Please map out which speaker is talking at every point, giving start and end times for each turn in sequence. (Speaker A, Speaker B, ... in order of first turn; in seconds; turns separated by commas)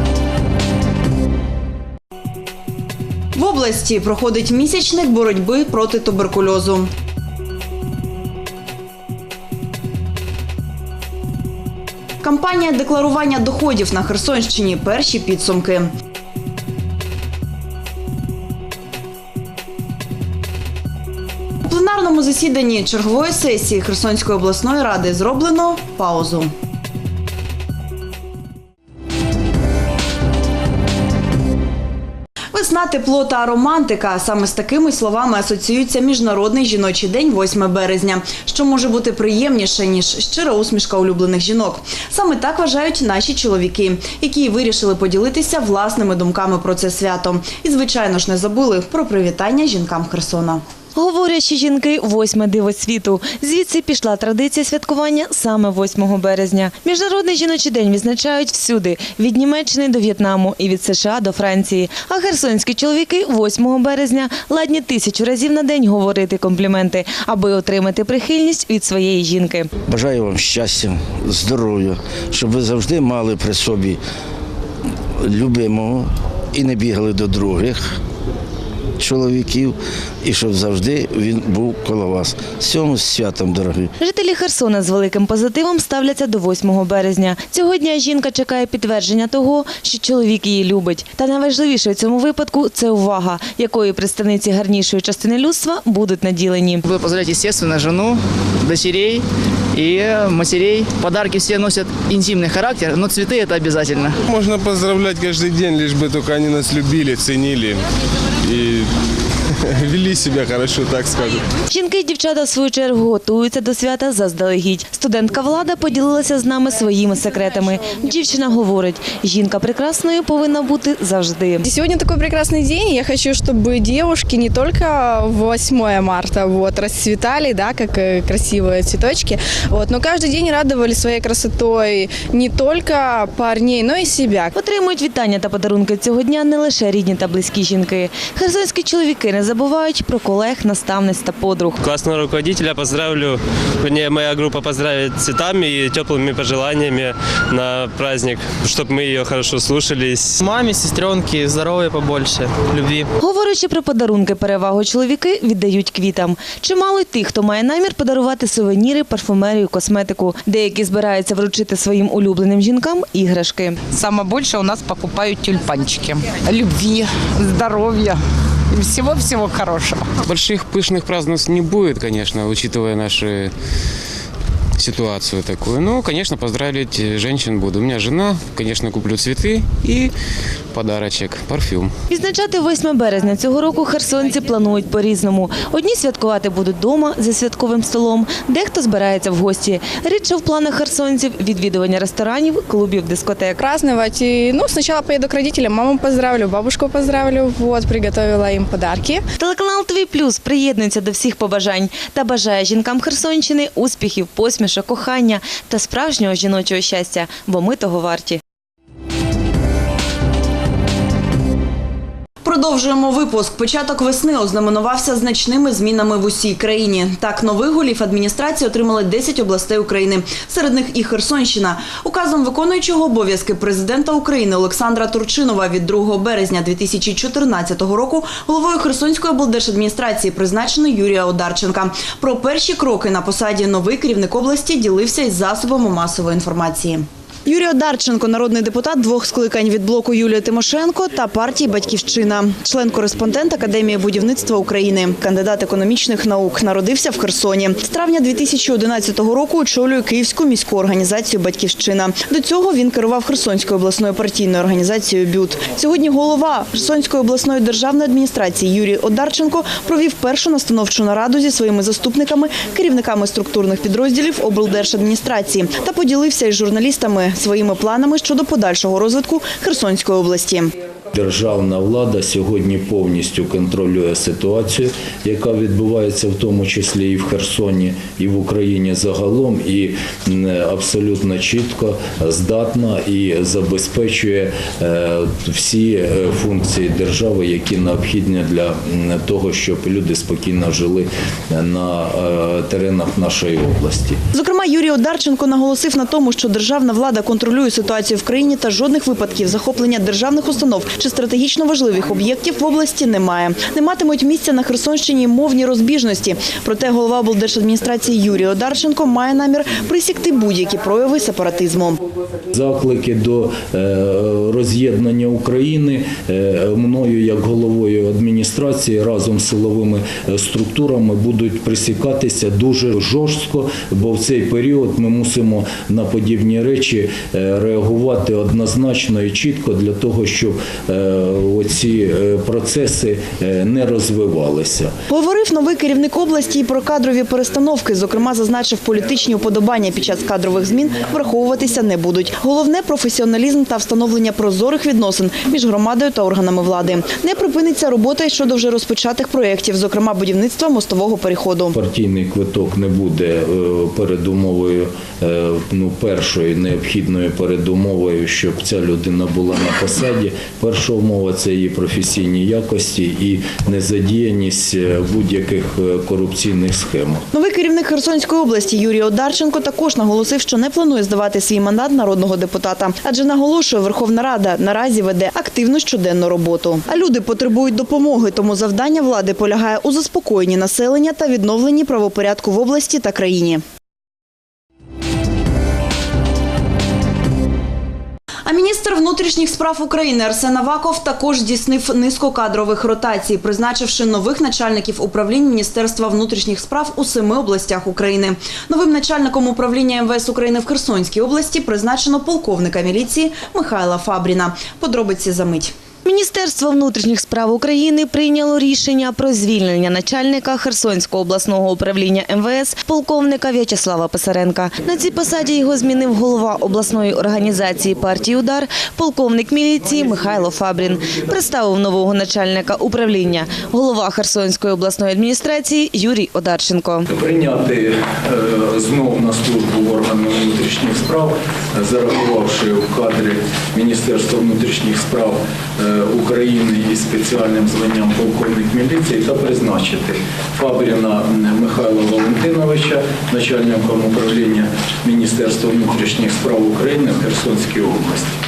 Speaker A: 3.3-6.9, Speaker A: 12.2-15.9, Speaker A: 21.6-26.5, Speaker A: 32.5-50.6, Speaker B: 50.9-69.7, Speaker C: 69.9-74.0, Speaker C: 75.2-78.0, Speaker C: 79.0-83.9, Speaker B: 84.0-96.8, Speaker D: 96.8-104.2, Speaker E: 104.3-108.9, Speaker E: 109.6-111.5, Speaker B: 111.7-121.6, Speaker F: 121.6-134.5, Speaker B: 134.5-141.8, Speaker G: 141.8-150.3, Speaker H: 150.4-153.1, Speaker B: 153.2-163.8, Speaker I: 163.9-170.1, Speaker J: 170.2-173.5, Speaker J: 174.8-180.1, Speaker J: 180.7-181.9, Speaker B: 182.1-193.6, Speaker F: 193.6-199.2, Speaker B: 199.4-208.4, Speaker A: 212.4-270.7, Speaker K: 271.1-294.2, Speaker A: 294.3-312.0, Speaker K: 312.5-334.9, Speaker A: 335.1-351.7, Speaker K: 351.7-367.2, Speaker A: 367.3-383.6, Speaker A: 388.4-405.7, Speaker B: 406.0-427.1, Speaker K: 427.1-448.3